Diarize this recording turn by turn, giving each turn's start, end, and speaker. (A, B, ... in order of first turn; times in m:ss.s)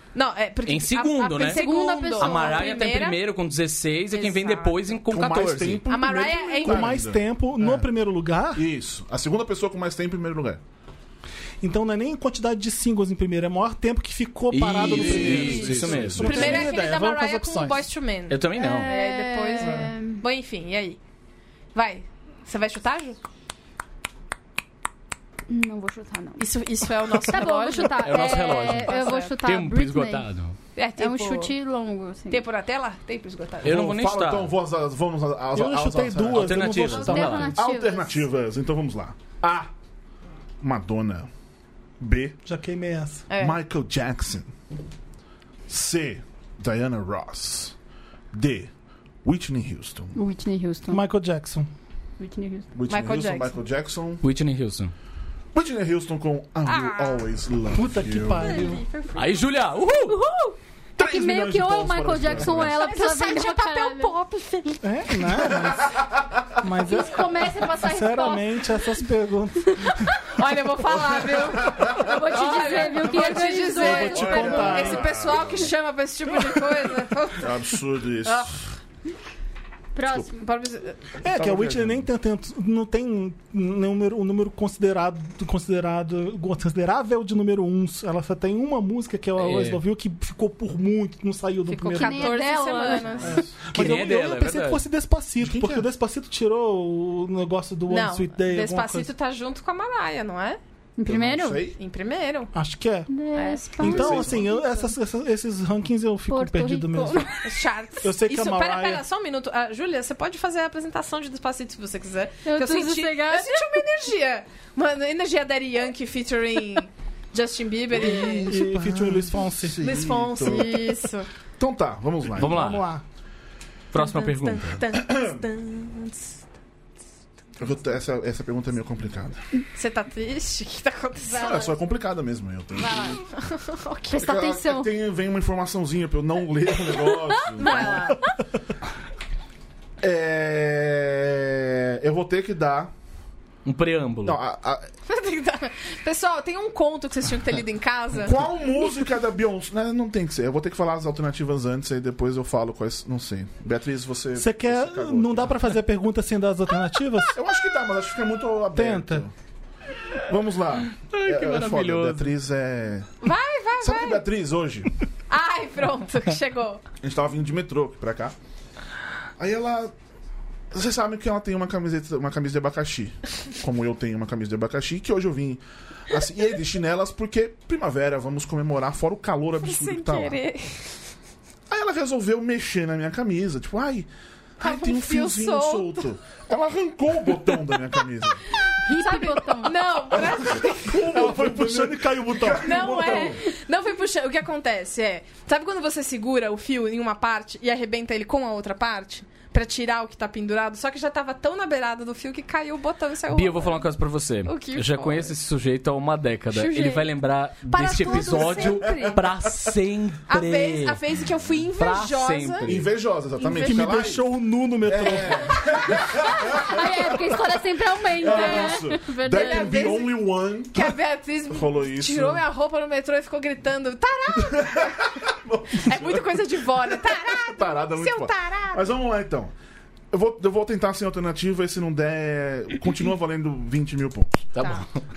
0:00.1-0:03.2 A
0:00.6-0:05.8 B
0:01.4-0:02.8 C
0:04.1-0:05.0 A
0:05.1-0:07.9 D
0:05.8-0:06.9 A
0:06.6-0:08.6 E
0:08.5-0:10.6 D
0:11.6-0:17.9 E
0:14.5-0:16.6 B
0:14.8-0:16.8 D
0:15.1-0:21.0 A
0:18.3-0:18.9 B
0:18.6-0:20.2 C
0:21.7-0:23.2 A
0:25.5-0:26.4 C
0:26.4-0:29.4 A
0:27.2-0:30.3 C
0:28.0-0:30.6 B
0:30.8-0:31.5 A
0:31.0-0:32.4 C
0:32.3-0:33.9 A
0:33.6-0:34.5 B
0:33.6-0:36.8 D
0:35.5-0:37.6 E
0:36.3-0:37.6 B
0:36.9-0:38.2 C
0:37.5-0:39.7 D
0:40.6-0:41.3 D
0:42.0-0:42.4 D
0:42.4-0:43.2 E
0:43.3-0:43.6 A
0:43.4-0:44.5 D
0:45.7-0:47.7 D
0:48.3-0:48.7 D
0:49.2-0:50.2 D
0:50.1-0:51.0 C
0:50.9-0:51.7 E
0:52.2-0:52.7 C
0:52.7-0:54.2 D
0:52.9-0:53.6 A
0:54.2-0:54.9 B
0:55.5-0:58.7 D
0:56.6-0:57.3 A
0:57.7-0:58.8 E
0:58.4-1:00.6 A
0:59.2-1:00.2 B
1:01.0-1:04.1 C
1:01.0-1:02.9 D
1:02.6-1:05.5 A
1:04.8-1:05.9 E
1:05.4-1:06.6 D
1:06.6-1:10.1 E
1:06.8-1:08.6 C
1:09.7-1:09.9 C
1:10.2-1:18.6 A
1:11.3-1:12.2 D
1:11.6-1:14.8 C
1:13.8-1:15.7 D
1:13.8-1:15.1 E
1:17.4-1:18.6 D
1:19.9-1:20.4 C
1:20.3-1:21.0 A
1:21.2-1:32.4 E
1:21.2-1:22.1 D
1:29.4-1:29.8 B
1:31.7-1:33.4 A
1:31.9-1:33.4 C
1:33.2-1:33.9 D
1:33.3-1:39.1 E
1:33.7-1:34.8 B
1:35.4-1:35.9 D
1:37.9-1:40.6 A
1:41.0-1:41.7 C
1:41.0-1:41.8 D
1:41.8-1:42.5 A
1:42.5-1:43.1 E
1:43.1-1:44.5 C
1:43.3-1:44.1 A
1:43.8-1:47.3 E
1:43.8-1:44.5 D
1:46.3-1:47.5 C
1:47.4-1:58.6 A
1:48.0-1:49.0 E
1:52.4-1:53.8 C
1:58.0-2:02.6 D
1:58.0-1:59.8 E
1:59.8-2:01.3 A
2:02.4-2:02.9 B
2:02.4-2:03.0 E
2:03.9-2:04.8 B
2:03.9-2:06.4 A
2:04.9-2:05.4 D
2:07.6-2:09.4 D
2:09.7-2:11.7 A
2:11.3-2:13.2 D
2:12.8-2:13.2 C
2:12.8-2:14.4 A
2:14.1-2:14.9 C
2:14.2-2:18.2 D
2:16.9-2:18.3 A
2:20.0-2:22.9 D
2:23.6-2:24.4 B
2:24.2-2:24.9 D
2:25.0-2:28.5 A
2:28.2-2:35.8 D
2:34.4-2:37.4 E
2:37.3-2:39.3 D
2:38.7-2:39.2 E
2:40.2-2:43.1 D
2:41.0-2:42.3 B
2:43.2-2:44.2 A
2:43.8-2:44.9 D
2:45.3-2:46.8 A
2:47.0-2:48.3 D
2:49.4-2:49.9 D
2:50.7-3:00.4 D
2:59.6-3:01.0 A
3:01.7-3:08.4 D
3:04.6-3:06.1 A
3:08.8-3:10.0 C
3:08.9-3:11.2 A
3:10.2-3:13.4 D
3:10.9-3:13.3 E
3:12.6-3:23.8 A
3:23.3-3:31.0 B
3:24.4-3:25.3 A
3:26.5-3:29.2 A
3:28.2-3:29.7 D
3:30.3-3:32.7 A
3:31.8-3:32.8 B
3:32.6-3:34.3 D
3:33.4-3:34.0 A
3:33.5-3:35.8 E
3:34.8-3:37.5 D
3:36.4-3:40.0 C
3:38.0-3:41.0 D
3:38.2-3:45.0 A
3:41.5-3:42.4 D
3:44.3-3:49.5 D
3:45.7-3:48.9 A
3:50.1-3:54.5 D
3:54.5-3:55.0 B
3:54.6-3:54.8 A